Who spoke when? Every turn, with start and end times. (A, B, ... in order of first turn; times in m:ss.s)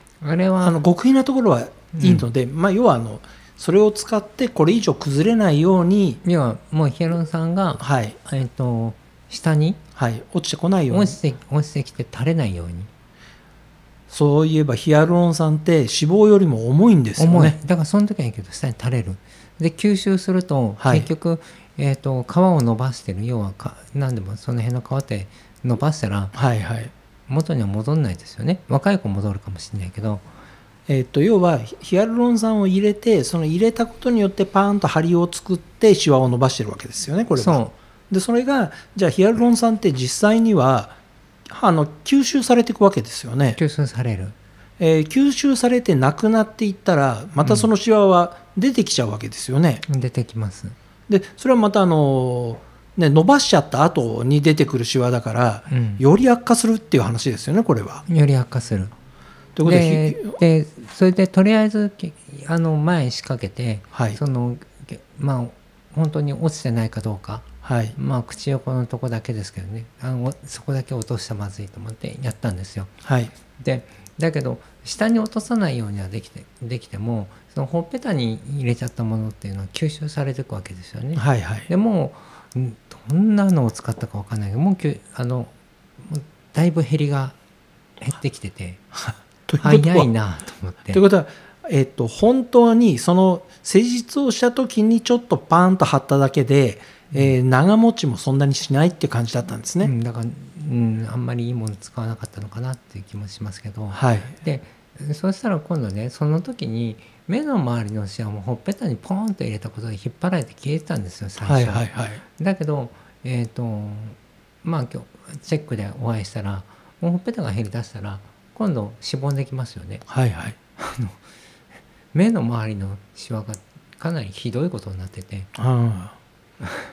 0:00.2-0:00.8 A
0:00.6-0:06.2 B
0:01.9-0:02.2 A
0:06.2-0:09.8 A
0:07.8-0:08.2 B
0:10.0-0:11.2 B
0:10.9-0:12.9 A
0:14.1-0:17.6 B
0:17.2-0:26.3 A
0:20.8-0:21.1 B
0:26.3-0:26.9 B
0:27.3-0:30.2 A
0:30.9-0:41.0 B
0:37.4-0:37.7 A
0:41.5-0:43.6 B
0:43.6-0:44.3 A
0:44.8-0:49.8 B
0:47.4-0:47.7 A
0:49.9-0:50.7 A
0:51.1-0:58.0 B
0:55.7-0:56.0 A
0:58.1-0:58.9 A
0:59.6-1:00.4 B
0:59.6-1:07.4 A
1:03.9-1:04.2 B
1:07.6-1:08.0 B
1:08.0-1:12.9 A
1:13.0-1:13.3 B
1:13.6-1:27.4 A
1:21.1-1:21.7 B
1:28.0-1:28.8 A
1:28.9-1:30.1 B
1:29.6-1:31.0 A
1:30.9-1:39.9 B
1:39.8-2:00.0 A
1:43.9-1:44.3 B
1:51.4-1:52.2 B
2:00.1-2:00.6 B
2:00.8-2:01.2 A
2:02.1-2:05.5 A
2:05.6-2:06.2 B